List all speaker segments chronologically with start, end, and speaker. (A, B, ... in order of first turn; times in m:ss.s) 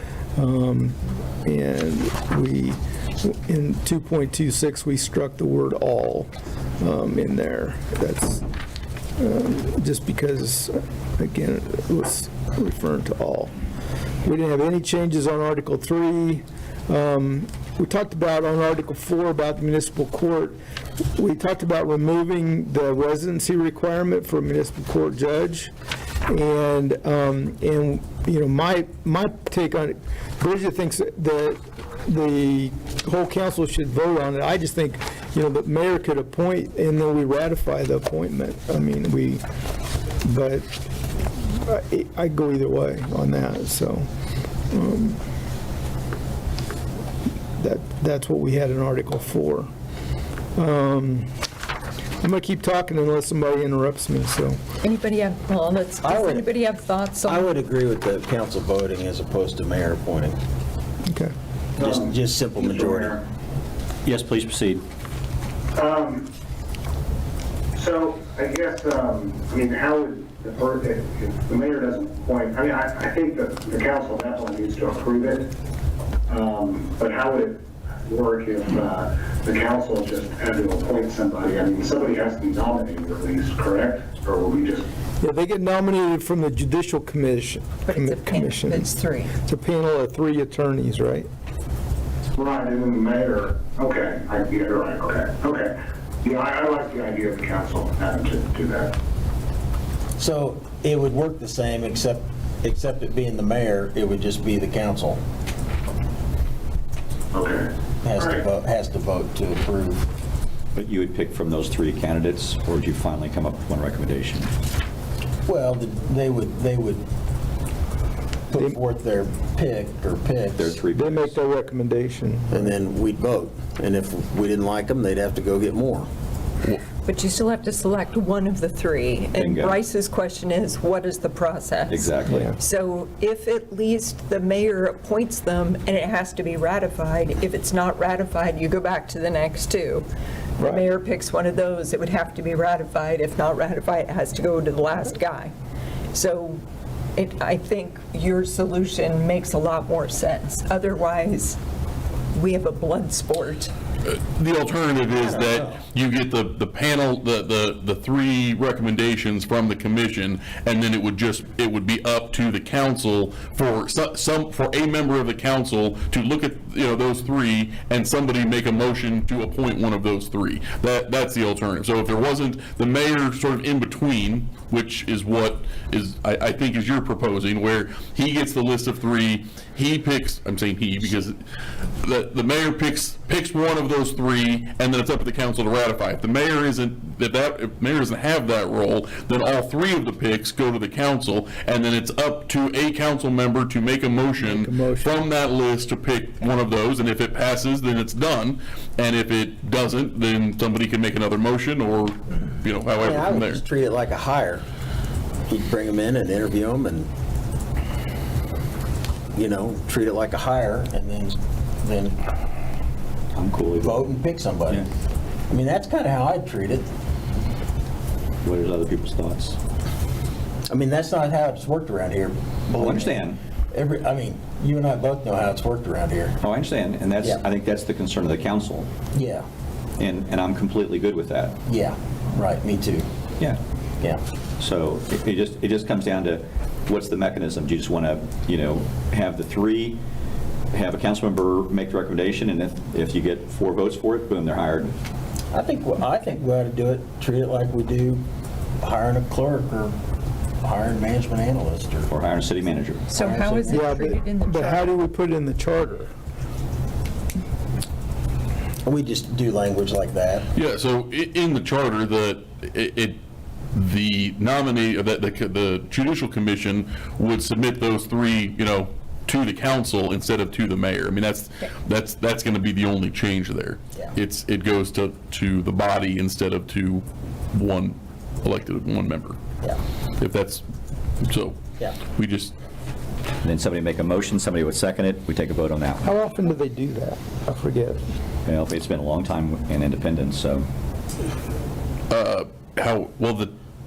0:00.4-0:06.3 A
0:06.8-0:08.4 A
0:09.2-0:13.5 A
0:14.2-0:20.6 A
0:21.2-0:25.7 A
0:26.3-0:39.4 A
0:40.2-0:40.7 A
0:41.4-0:44.1 A
0:44.7-0:45.2 A
0:47.6-0:49.7 A
0:50.6-0:51.3 A
0:52.2-0:54.6 A
0:54.8-0:57.5 B
0:56.0-0:56.5 C
0:57.2-1:00.4 C
1:01.1-1:01.3 A
1:01.8-1:03.1 C
1:01.8-1:02.1 D
1:02.7-1:03.2 D
1:04.0-1:04.8 E
1:05.8-1:06.3 D
1:07.8-1:15.5 D
1:16.3-1:24.8 D
1:25.2-1:31.3 A
1:27.8-1:29.4 B
1:32.4-1:39.0 D
1:40.2-1:45.2 C
1:47.3-1:48.4 D
1:48.0-1:50.0 C
1:50.8-1:54.5 E
1:55.5-1:57.0 C
1:58.5-2:00.8 C
2:00.6-2:01.3 E
2:00.9-2:02.7 A
2:02.5-2:06.1 C
2:07.0-2:20.1 B
2:09.4-2:09.8 E
2:11.9-2:12.5 E
2:12.3-2:12.5 A
2:20.6-2:20.8 A
2:20.6-2:25.5 B
2:26.1-2:26.6 B
2:27.2-2:31.6 B
2:32.3-2:33.7 B
2:34.0-3:01.4 F
2:35.2-2:35.8 C
3:02.0-3:23.6 F
3:14.4-3:15.2 A
3:23.0-3:24.6 C
3:25.5-3:27.1 C
3:29.4-3:32.2 C
3:33.3-3:34.1 E
3:33.8-3:34.9 C
3:35.5-3:36.9 C
3:38.4-3:39.6 E
3:40.7-3:43.2 C
3:42.8-3:43.4 E
3:43.7-3:46.4 C
3:46.4-3:48.9 E
3:49.1-3:49.5 C
3:50.0-3:51.6 E
3:51.7-3:53.1 C
3:54.6-4:00.0 E
4:00.7-4:05.0 E
4:05.5-4:08.2 C
4:08.8-4:10.0 C
4:10.6-4:12.1 C
4:12.1-4:13.0 E
4:13.1-4:14.9 B
4:13.1-4:14.1 C
4:13.7-4:16.1 A
4:18.8-4:20.5 C
4:20.6-4:23.2 F
4:23.7-4:39.4 F
4:40.2-4:40.6 F
4:41.2-4:41.6 F
4:42.1-4:42.5 F
4:43.4-4:46.1 E
4:46.0-4:48.0 A
4:48.4-4:50.7 E
4:52.1-4:53.5 F